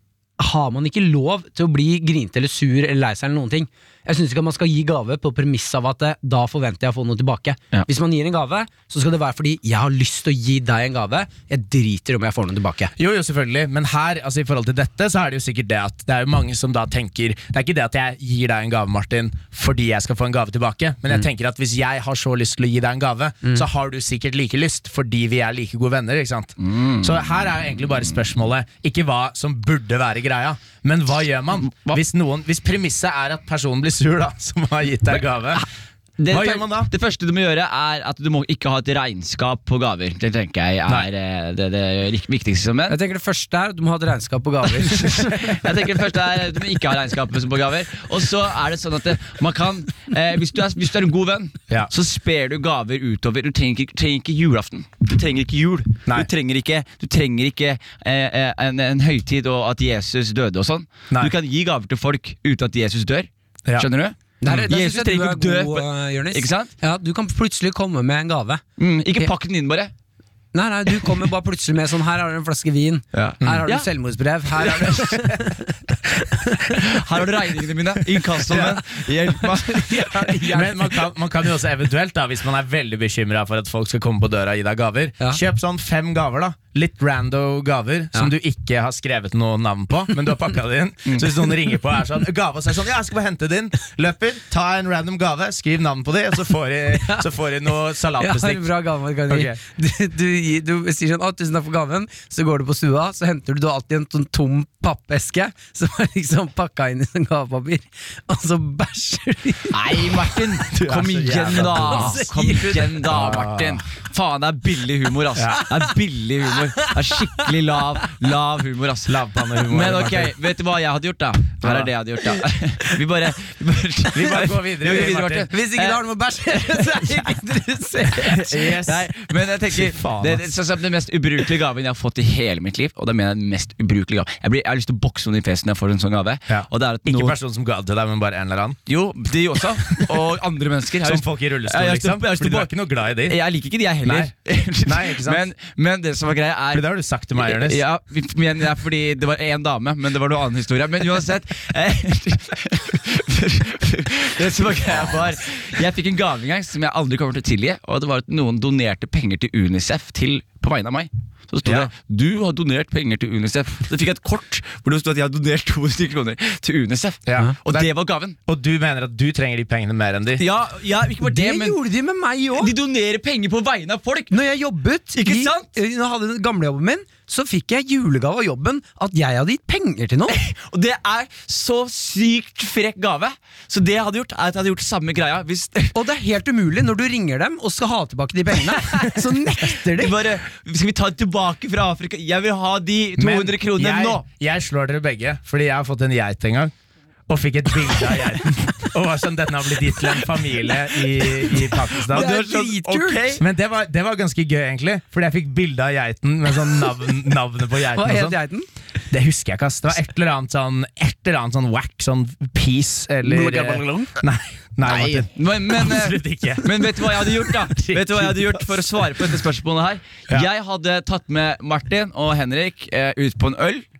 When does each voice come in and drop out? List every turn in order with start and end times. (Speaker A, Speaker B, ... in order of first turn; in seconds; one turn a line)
Speaker A: 0.4-12.9
Speaker B: 13.0-35.6
Speaker C: 26.6-27.1
Speaker C: 31.7-32.0
Speaker C: 36.2-43.0
Speaker B: 36.3-36.9
Speaker A: 42.9-45.4
Speaker C: 45.3-66.7
Speaker A: 64.4-68.6
Speaker C: 68.8-69.9
Speaker A: 70.5-75.7
Speaker C: 73.1-73.9
Speaker C: 74.6-75.1
Speaker C: 76.8-80.3
Speaker A: 78.5-81.0
Speaker B: 80.5-98.7
Speaker A: 97.0-97.2
Speaker A: 98.2-109.8
Speaker B: 99.3-99.6
Speaker C: 109.7-126.0
Speaker B: 110.7-112.2
Speaker A: 111.6-113.0
Speaker B: 113.1-113.8
Speaker A: 116.8-117.5
Speaker B: 119.1-120.3
Speaker B: 121.6-121.9
Speaker B: 124.1-125.5
Speaker A: 125.3-128.7
Speaker C: 126.5-127.1
Speaker B: 128.3-129.1
Speaker C: 128.8-137.4
Speaker B: 129.7-130.5
Speaker B: 136.5-138.8
Speaker C: 138.9-142.7
Speaker B: 141.0-143.4
Speaker C: 143.2-168.4
Speaker B: 144.0-145.4
Speaker B: 146.7-147.8
Speaker B: 161.7-161.9
Speaker B: 167.3-167.9
Speaker B: 168.5-170.4
Speaker C: 170.4-171.8
Speaker A: 171.2-172.7
Speaker C: 172.5-174.3
Speaker A: 174.3-180.4
Speaker C: 175.1-175.7
Speaker C: 180.3-185.9
Speaker A: 185.9-190.1
Speaker C: 189.9-194.2
Speaker B: 193.2-196.7
Speaker B: 197.3-202.3
Speaker A: 202.1-203.4
Speaker C: 202.1-203.4
Speaker B: 203.4-208.4
Speaker A: 208.0-208.7
Speaker B: 209.1-219.4
Speaker A: 213.2-214.2
Speaker C: 214.9-223.8